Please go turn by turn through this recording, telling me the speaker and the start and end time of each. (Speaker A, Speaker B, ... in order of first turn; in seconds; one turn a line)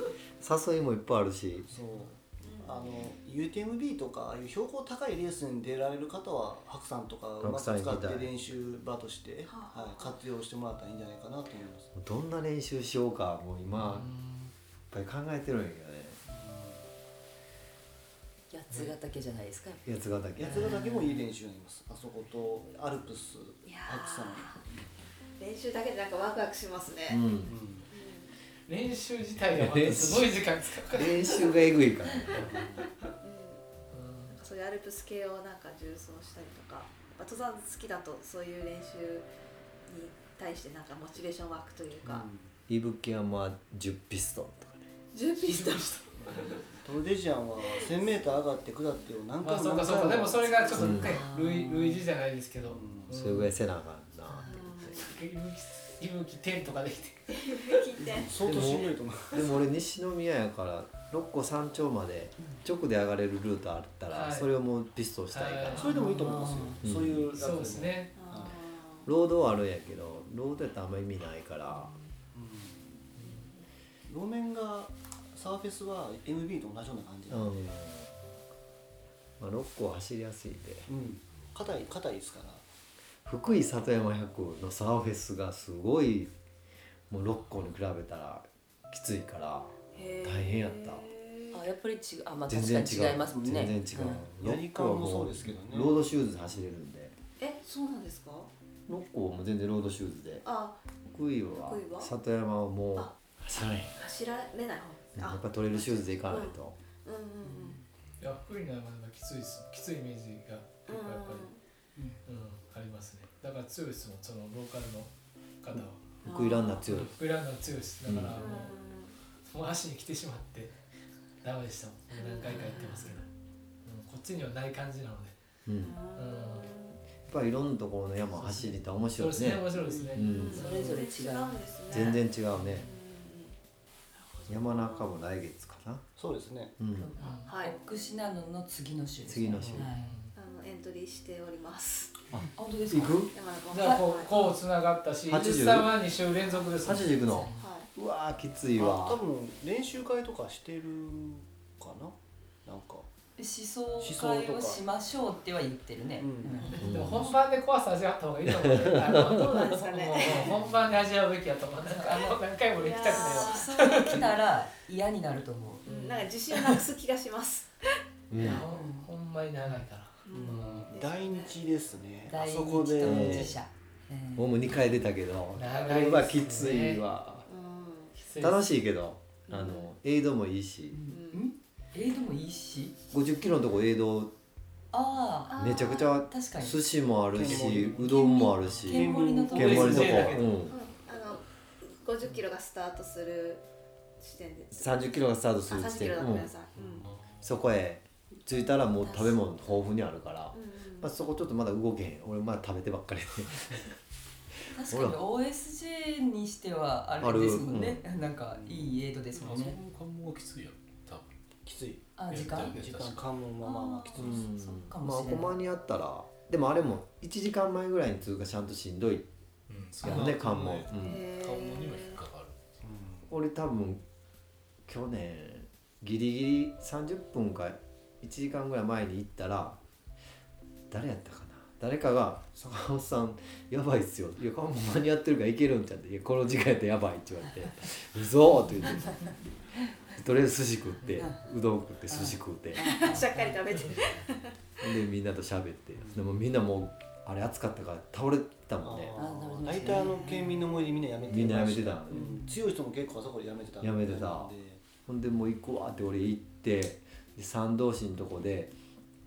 Speaker A: 0.4-1.7
Speaker B: 1.7-11.9
Speaker C: 2.5-2.9
Speaker A: 7.4-8.3
Speaker C: 9.5-10.2
Speaker A: 11.9-14.1
Speaker D: 13.8-14.5
Speaker A: 14.9-16.2
Speaker B: 16.3-16.8
Speaker E: 18.5-19.8
Speaker A: 19.9-20.7
Speaker B: 20.4-24.6
Speaker C: 23.6-24.6
Speaker C: 25.4-27.4
Speaker A: 27.1-27.5
Speaker B: 27.4-27.9
Speaker C: 27.9-28.3
Speaker D: 28.7-31.6
Speaker A: 29.6-30.3
Speaker A: 30.9-32.5
Speaker B: 32.4-32.9
Speaker C: 33.2-33.6
Speaker D: 33.9-34.4
Speaker C: 34.3-39.3
Speaker C: 39.9-42.3
Speaker B: 42.0-42.5
Speaker A: 42.7-44.9
Speaker C: 45.1-46.0
Speaker D: 45.4-46.6
Speaker B: 46.2-50.8
Speaker D: 49.4-53.5
Speaker C: 50.6-51.1
Speaker A: 50.8-51.1
Speaker E: 51.0-52.0
Speaker B: 52.7-53.1
Speaker A: 53.1-55.0
Speaker C: 54.4-55.0
Speaker D: 55.0-57.6
Speaker C: 57.3-58.5
Speaker B: 58.0-59.6
Speaker A: 58.5-65.9
Speaker D: 64.1-64.5
Speaker D: 65.3-65.9
Speaker B: 65.7-68.6
Speaker E: 65.9-66.8
Speaker A: 66.8-67.1
Speaker D: 67.3-68.2
Speaker C: 68.2-69.1
Speaker A: 69.0-72.0
Speaker B: 72.3-72.9
Speaker B: 74.1-77.5
Speaker A: 77.3-78.2
Speaker A: 79.4-80.9
Speaker B: 80.9-82.6
Speaker A: 83.2-86.3
Speaker A: 87.1-91.1
Speaker C: 89.9-91.6
Speaker E: 91.5-94.2
Speaker A: 92.5-97.1
Speaker B: 93.5-96.0
Speaker C: 97.4-98.5
Speaker A: 98.9-100.4
Speaker C: 100.4-100.8
Speaker A: 101.1-104.0
Speaker C: 101.6-102.1
Speaker C: 104.0-107.8
Speaker A: 105.2-106.8
Speaker D: 108.2-111.5
Speaker C: 110.9-111.6
Speaker D: 112.2-116.0
Speaker C: 116.2-116.8
Speaker A: 116.2-117.2
Speaker D: 116.9-118.8
Speaker A: 118.1-118.5
Speaker C: 118.4-119.1
Speaker D: 119.5-120.8
Speaker D: 121.4-123.3
Speaker C: 122.2-123.1
Speaker D: 123.8-125.3
Speaker A: 125.7-126.0
Speaker C: 125.8-127.0
Speaker D: 126.2-126.7
Speaker A: 127.3-130.5
Speaker D: 129.2-130.8
Speaker E: 129.9-131.6
Speaker C: 130.2-132.3
Speaker A: 131.9-132.9
Speaker C: 132.8-133.6
Speaker C: 134.2-135.1
Speaker A: 134.5-136.0
Speaker B: 136.2-136.8
Speaker A: 136.8-137.1
Speaker E: 136.9-140.1
Speaker D: 137.2-137.4
Speaker C: 137.2-137.7
Speaker A: 139.2-139.9
Speaker D: 140.0-140.3
Speaker C: 140.3-142.2
Speaker A: 142.3-143.3
Speaker E: 142.6-144.0
Speaker C: 143.3-144.3
Speaker D: 143.7-147.7
Speaker A: 145.3-145.9
Speaker A: 146.8-149.2
Speaker C: 147.6-147.9
Speaker B: 148.8-153.1
Speaker E: 153.4-157.2
Speaker B: 154.0-154.8
Speaker B: 156.2-156.7
Speaker D: 156.7-164.2
Speaker A: 156.8-157.2
Speaker C: 159.0-160.6
Speaker E: 161.8-162.4
Speaker C: 162.8-163.7
Speaker E: 163.0-165.9
Speaker C: 165.8-168.0
Speaker D: 165.9-166.2
Speaker A: 168.3-168.6
Speaker D: 168.4-170.9
Speaker E: 168.5-169.1
Speaker C: 170.3-171.6
Speaker B: 170.3-173.6
Speaker E: 172.3-174.5
Speaker A: 173.0-173.6
Speaker A: 174.3-177.5
Speaker D: 175.6-177.0
Speaker C: 177.5-178.1
Speaker D: 178.2-178.6
Speaker A: 178.4-181.0
Speaker C: 179.5-179.9
Speaker E: 180.9-183.0
Speaker C: 181.1-181.4
Speaker A: 183.1-184.3
Speaker E: 184.9-186.8
Speaker C: 185.5-186.1
Speaker A: 185.6-190.8
Speaker B: 187.3-188.1
Speaker F: 187.4-188.1
Speaker E: 187.9-190.4
Speaker B: 188.9-190.3
Speaker D: 189.6-190.5
Speaker C: 190.7-193.6
Speaker C: 194.2-197.1
Speaker A: 194.7-196.5
Speaker A: 197.4-204.0
Speaker E: 199.1-199.3
Speaker C: 200.5-201.1
Speaker E: 204.7-209.8
Speaker A: 204.9-205.2
Speaker A: 207.2-208.0
Speaker B: 208.5-208.9
Speaker F: 209.4-211.3
Speaker B: 211.7-214.5
Speaker E: 212.2-212.8
Speaker F: 212.3-213.3
Speaker E: 213.6-215.6
Speaker A: 214.2-219.3
Speaker F: 219.7-222.6
Speaker A: 220.0-221.2
Speaker C: 220.9-222.2
Speaker B: 222.8-223.3
Speaker A: 223.3-224.0
Speaker A: 224.9-229.8
Speaker A: 230.9-239.3
Speaker A: 240.1-242.9
Speaker E: 242.1-243.5
Speaker C: 242.8-244.6
Speaker A: 244.8-249.1
Speaker B: 248.8-254.8
Speaker E: 249.2-250.9
Speaker A: 251.3-252.3
Speaker A: 253.8-254.5
Speaker A: 255.1-258.7